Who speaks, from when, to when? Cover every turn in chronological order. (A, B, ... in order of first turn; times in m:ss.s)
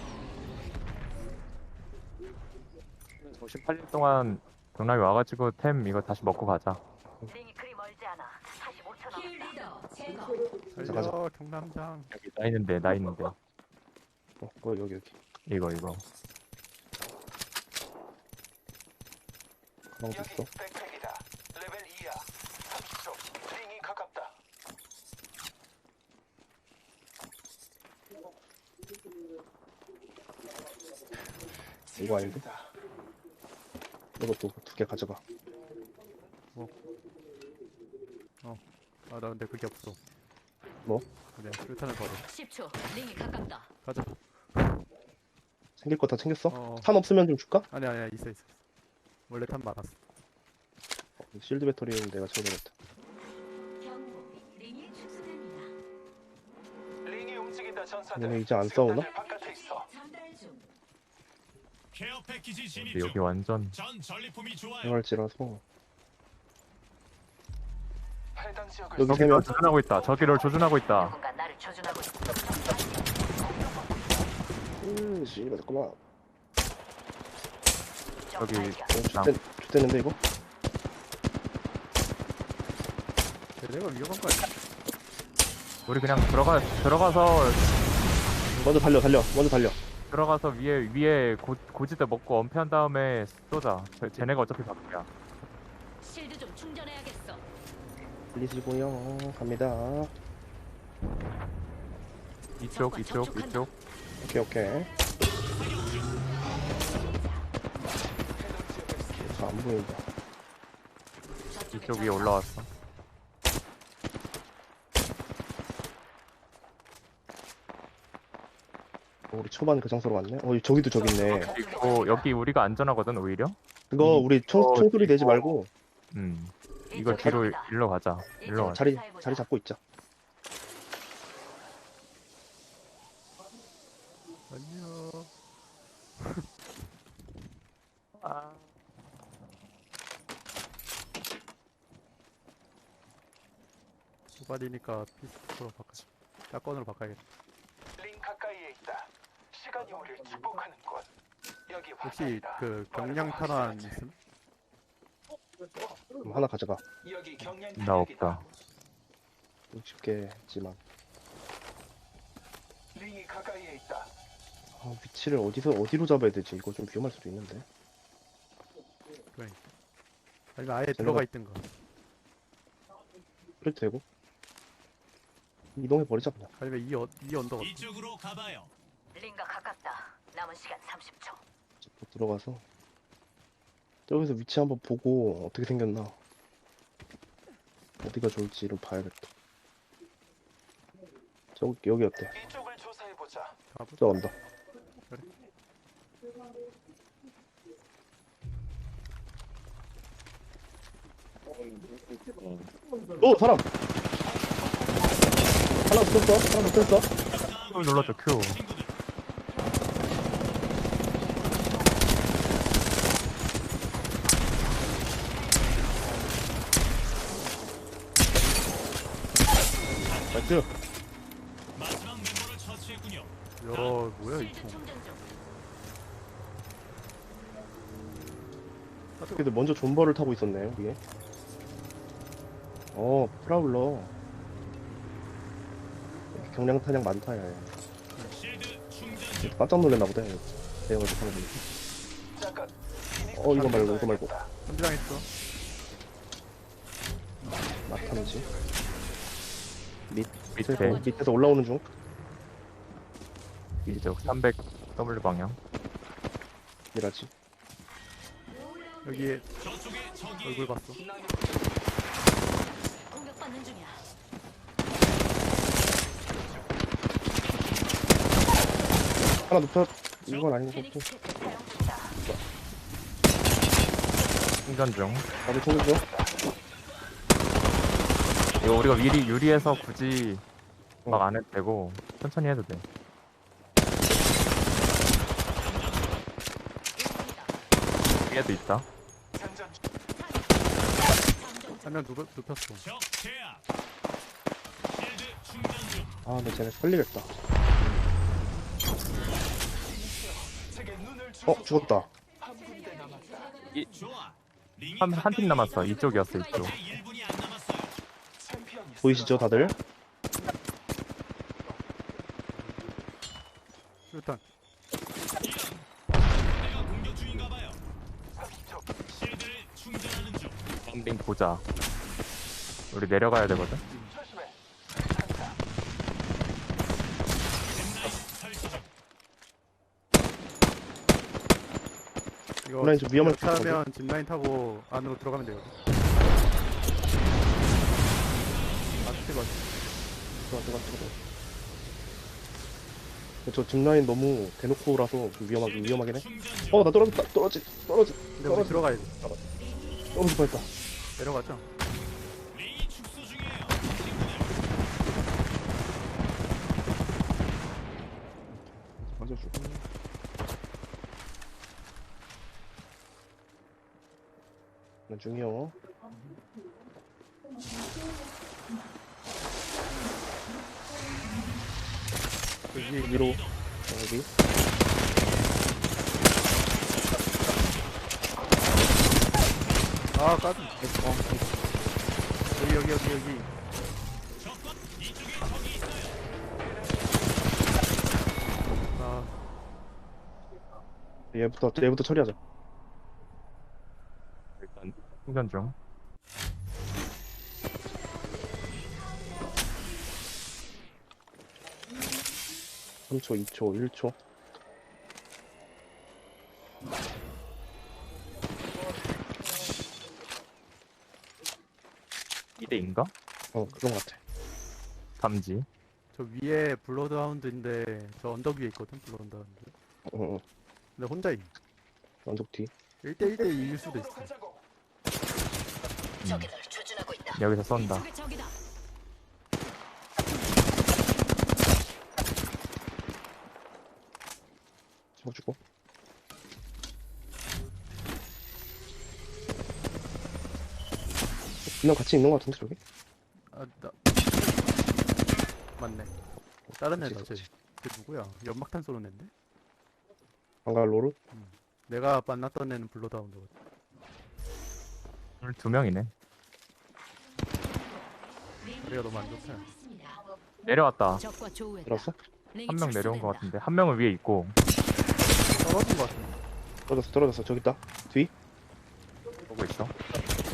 0:03.2-0:06.8 A
0:07.2-0:10.6 B
0:10.7-0:12.1 C
0:10.8-0:11.1 D
0:12.1-0:13.4 A
0:14.4-0:15.2 D
0:15.5-0:16.0 A
0:20.0-0:20.5 D
0:20.1-0:24.4 E
0:31.5-0:32.8 E
0:32.0-0:32.4 D
0:34.2-0:35.2 D
0:38.4-0:40.0 C
0:41.4-0:42.2 C
0:42.2-0:43.7 B
0:43.8-0:44.8 C
0:45.8-0:47.7 D
0:46.5-0:46.9 C
0:47.7-0:48.6 C
0:49.3-0:50.0 C
0:51.2-0:52.7 D
0:53.8-0:55.7 B
0:57.0-0:59.9 E
0:58.1-0:59.1 D
0:59.0-1:00.7 B
1:01.9-1:03.2 F
1:02.8-1:03.8 A
1:03.7-1:05.0 F
1:04.8-1:05.6 D
1:08.4-1:10.7 E
1:09.0-1:09.6 D
1:09.0-1:11.1 A
1:10.2-1:13.2 B
1:13.3-1:14.4 E
1:14.8-1:16.0 D
1:18.3-1:19.0 B
1:18.4-1:19.3 A
1:18.9-1:20.2 D
1:23.6-1:24.5 C
1:25.9-1:27.7 A
1:28.6-1:29.8 D
1:30.1-1:35.1 A
1:36.0-1:37.5 B
1:38.3-1:40.1 D
1:42.6-1:43.7 A
1:42.7-1:43.7 B
1:44.2-1:44.9 D
1:45.4-1:46.2 F
1:46.7-1:47.5 B
1:48.4-1:49.4 E
1:49.3-1:50.0 D
1:51.5-1:52.4 B
1:51.7-1:52.7 A
1:59.3-2:01.5 D
2:00.9-2:02.3 E
2:01.3-2:05.6 A
2:01.3-2:02.3 B
2:03.9-2:05.7 D
2:06.1-2:08.9 A
2:06.9-2:07.8 B
2:07.1-2:07.5 D
2:08.4-2:09.5 B
2:08.5-2:09.8 D
2:14.5-2:15.3 C
2:16.2-2:16.5 C
2:18.2-2:18.6 A
2:24.4-2:27.2 C
2:28.0-2:31.1 E
2:31.7-2:34.0 E
2:32.0-2:34.2 C
2:36.2-2:36.8 D
2:37.0-2:38.5 E
2:37.4-2:38.4 A
2:39.7-2:40.8 D
2:42.9-2:44.1 E
2:44.7-2:47.6 D
2:49.3-2:49.6 C
2:50.6-2:51.7 C
2:50.9-2:51.3 D
2:53.6-2:54.0 D
2:55.8-2:56.5 D
2:56.6-2:57.9 C
2:57.6-2:58.7 F
2:59.1-3:01.4 B
3:01.8-3:02.6 D
3:04.1-3:06.2 D
3:08.0-3:09.3 D
3:11.6-3:12.3 D
3:12.3-3:13.6 E
3:13.7-3:14.2 C
3:14.0-3:14.3 D
3:21.5-3:22.7 A
3:23.2-3:23.6 D
3:25.9-3:27.1 D
3:27.3-3:28.9 F
3:27.7-3:28.6 A
3:31.3-3:31.8 B
3:34.4-3:35.2 B
3:40.1-3:40.7 D
3:41.8-3:44.0 F
3:43.6-3:44.8 C
3:44.2-3:45.3 B
3:49.2-3:49.6 C
3:49.4-3:51.0 D
3:52.9-3:54.1 D
3:56.3-3:57.7 D
3:58.3-3:59.6 F
3:59.4-4:01.6 D
4:02.4-4:04.5 E
4:03.3-4:04.3 D
4:04.6-4:05.3 C
4:07.7-4:09.4 E
4:07.9-4:08.4 D
4:10.1-4:11.8 D
4:10.6-4:11.2 A
4:10.6-4:11.6 B
4:13.8-4:15.6 A
4:16.9-4:17.3 D
4:18.9-4:19.4 B
4:19.0-4:19.4 C
4:19.6-4:20.8 F
4:20.4-4:21.0 C
4:20.9-4:22.0 E
4:23.0-4:24.1 B
4:25.8-4:26.9 E
4:29.4-4:31.0 D
4:30.5-4:32.2 B
4:34.6-4:35.3 A
4:35.4-4:36.0 D
4:35.5-4:36.4 E
4:38.4-4:39.9 F
4:38.6-4:40.4 A
4:41.1-4:42.8 A
4:45.5-4:46.2 F
4:46.9-4:47.6 B
4:48.2-4:48.9 A
4:49.3-4:49.8 E
4:50.2-4:52.0 B
4:51.8-4:52.9 C
4:52.8-4:53.6 F
4:54.9-4:56.2 F
4:56.2-4:57.3 D
4:59.7-5:03.7 E
5:01.4-5:02.1 D
5:03.9-5:08.0 F
5:05.0-5:06.7 A
5:05.8-5:06.7 B
5:08.4-5:09.8 E
5:09.0-5:09.8 D
5:14.1-5:14.4 C
5:15.4-5:17.8 F
5:18.4-5:18.9 E
5:19.1-5:20.6 F
5:20.9-5:21.6 A
5:22.9-5:23.8 A
5:23.9-5:25.6 E
5:27.6-5:28.9 F
5:32.6-5:35.8 C
5:32.8-5:33.8 D
5:38.2-5:39.4 F
5:39.0-5:39.6 C
5:40.5-5:41.2 D
5:43.4-5:49.4 D
5:45.6-5:46.9 F
5:48.4-5:49.1 C
5:49.6-5:50.3 B
5:50.1-5:50.7 D
5:51.2-5:51.7 C
5:52.5-5:54.6 F
5:58.5-5:59.9 D
6:05.1-6:05.8 D
6:12.7-6:13.3 C
6:12.7-6:13.6 F
6:13.0-6:14.3 D
6:16.2-6:17.9 F
6:19.6-6:20.9 F
6:20.1-6:21.4 C
6:22.6-6:23.5 C
6:24.4-6:26.2 F
6:26.6-6:27.6 E
6:28.9-6:29.4 C
6:31.3-6:32.4 D
6:34.6-6:35.8 A
6:43.1-6:44.2 D
6:52.6-6:53.1 A
6:53.5-6:54.2 D
6:55.2-6:55.7 A
6:56.1-6:59.7 C
7:00.1-7:00.4 D
7:01.0-7:01.5 C
7:02.2-7:02.7 D
7:03.0-7:04.3 C
7:03.2-7:04.6 E
7:06.2-7:06.5 A
7:06.2-7:08.6 B
7:07.4-7:08.1 A
7:15.2-7:15.6 D
7:21.7-7:22.8 D
7:23.5-7:24.7 C
7:25.8-7:26.1 C
7:26.7-7:27.5 D
7:26.8-7:29.3 C
7:30.6-7:31.2 D
7:31.3-7:33.5 C
7:35.4-7:36.1 A
7:37.6-7:40.2 B
7:38.9-7:39.7 C
7:40.6-7:41.2 A
7:41.2-7:43.5 B
7:41.8-7:42.2 D
7:42.7-7:44.6 A
7:45.6-7:46.4 C
7:46.9-7:48.3 D
7:49.5-7:49.9 A